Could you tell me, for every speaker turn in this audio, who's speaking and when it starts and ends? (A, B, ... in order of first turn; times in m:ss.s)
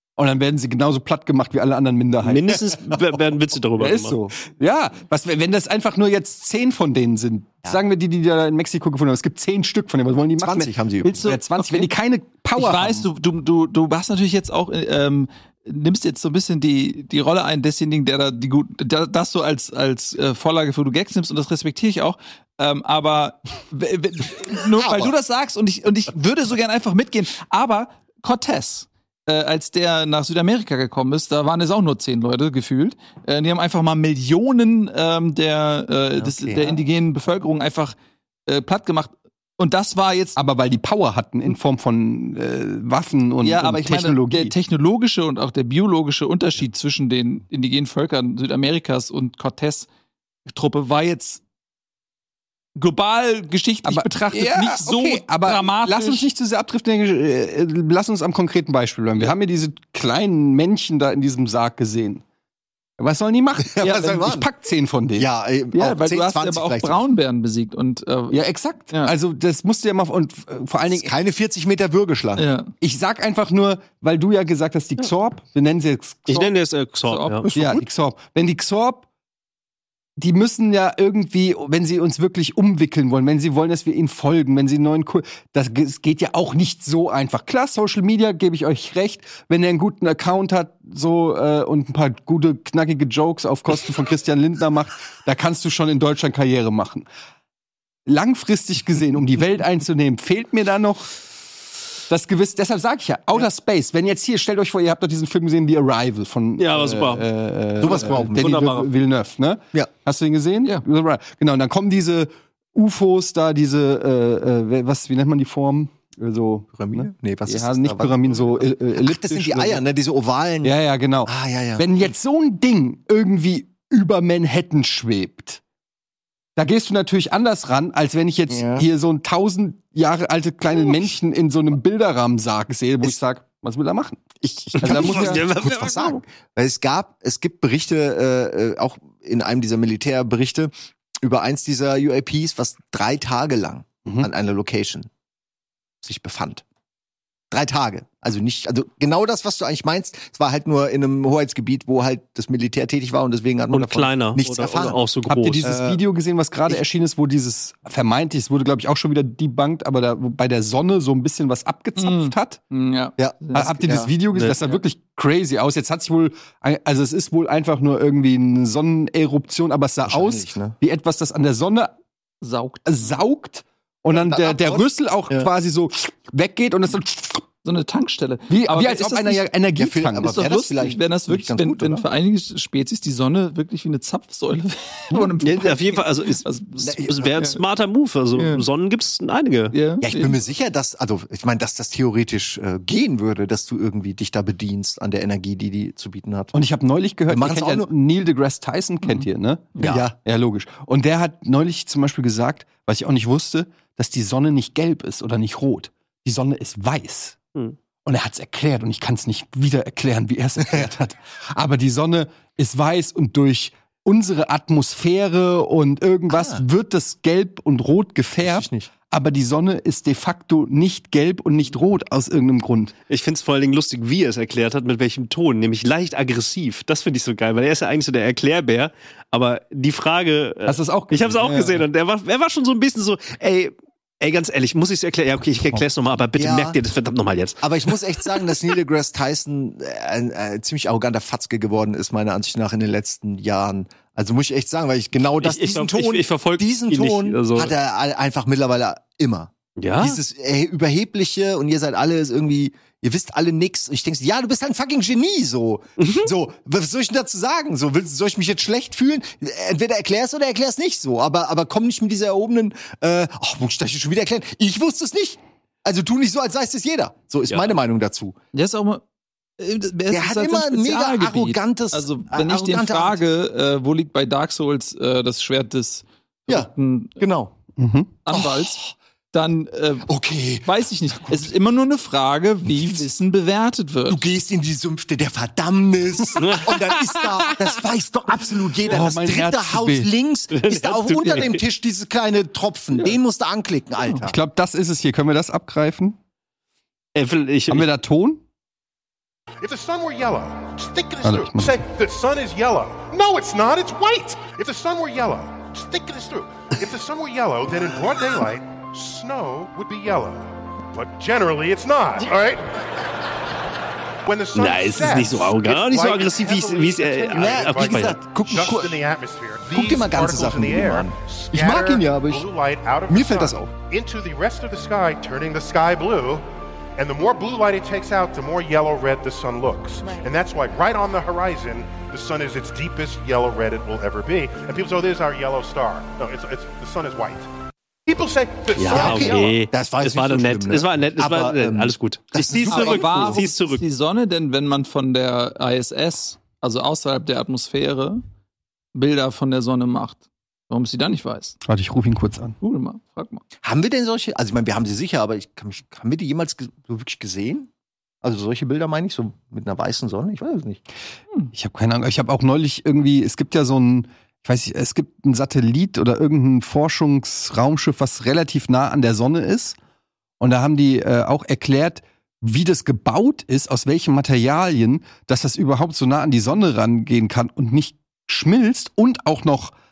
0:00.2-0:02.6 A
0:02.2-0:04.2 B
0:03.8-0:13.1 A
0:10.4-0:11.2 C
0:11.0-0:11.9 D
0:12.6-0:38.0 D
0:24.8-0:25.1 C
0:36.2-0:36.8 C
0:38.5-0:40.4 D
0:40.4-0:44.5 A
0:43.4-0:49.9 D
0:50.5-0:51.4 D
0:52.8-0:56.2 D
0:53.8-1:02.2 A
1:03.0-1:05.3 A
1:03.6-1:04.4 C
1:05.2-1:07.0 C
1:05.7-1:09.1 D
1:08.3-1:11.1 A
1:10.9-1:12.4 C
1:12.4-1:12.7 D
1:12.8-1:16.5 A
1:16.3-1:17.5 B
1:17.1-1:17.4 D
1:17.4-1:17.8 C
1:17.5-1:19.0 A
1:20.2-1:37.1 A
1:38.0-1:41.2 A
1:42.1-1:59.8 A
1:46.6-1:47.2 B
1:47.8-1:48.9 B
1:47.8-1:48.4 C
1:56.7-2:00.7 C
2:00.6-2:05.6 A
2:01.2-2:02.1 C
2:06.6-2:14.2 A
2:08.5-2:08.8 C
2:10.7-2:11.1 C
2:14.4-2:20.7 C
2:14.7-2:15.4 A
2:14.8-2:16.2 B
2:21.2-2:25.1 C
2:26.0-2:26.6 C
2:27.5-2:35.0 C
2:33.7-2:35.7 B
2:35.2-2:42.6 A
2:35.6-2:36.0 C
2:42.0-2:44.8 D
2:43.2-2:44.1 C
2:43.5-2:51.9 A
2:50.0-2:50.8 C
2:52.4-2:53.2 D
2:52.8-2:57.4 A
2:54.1-2:55.5 C
2:57.6-2:59.4 D
2:58.5-3:00.4 A
2:59.7-3:02.0 C
3:00.2-3:07.6 D
3:05.4-3:09.7 B
3:06.8-3:07.4 C
3:08.3-3:08.6 D
3:09.7-3:10.4 D
3:10.0-3:16.5 C
3:16.5-3:27.4 A
3:17.3-3:17.9 C
3:19.8-3:20.1 C
3:28.0-3:42.9 A
3:36.3-3:36.6 C
3:38.4-3:38.9 C
3:43.1-3:57.9 B
3:50.6-3:51.8 A
3:56.4-3:56.8 C
3:57.6-4:28.4 C
4:05.4-4:07.7 B
4:09.8-4:10.2 B
4:16.0-4:16.3 B
4:27.5-4:27.7 B
4:28.5-4:29.0 D
4:29.6-4:37.2 D
4:30.1-4:33.2 C
4:36.5-4:37.5 C
4:37.8-4:38.2 A
4:38.2-4:44.2 D
4:38.3-4:38.9 C
4:40.1-4:40.7 C
4:44.1-4:54.4 C
4:46.4-4:47.1 B
4:48.9-4:50.1 A
4:50.5-4:51.6 B
4:54.2-4:56.2 A
4:57.1-4:57.9 B
4:57.7-4:58.4 A
4:59.6-5:12.8 E
5:01.2-5:01.8 A
5:14.2-5:37.5 E
5:14.5-5:18.2 B
5:17.3-5:19.0 C
5:19.7-5:22.5 C
5:23.1-5:23.7 C
5:38.1-5:39.5 E
5:38.7-5:43.8 B
5:38.9-5:43.4 C
5:42.6-5:48.2 D
5:48.9-5:51.6 D
5:51.6-5:52.6 A
5:52.6-5:53.4 D
5:53.6-5:57.7 C
5:58.2-6:00.8 C
6:01.5-6:09.8 A
6:10.4-6:19.7 A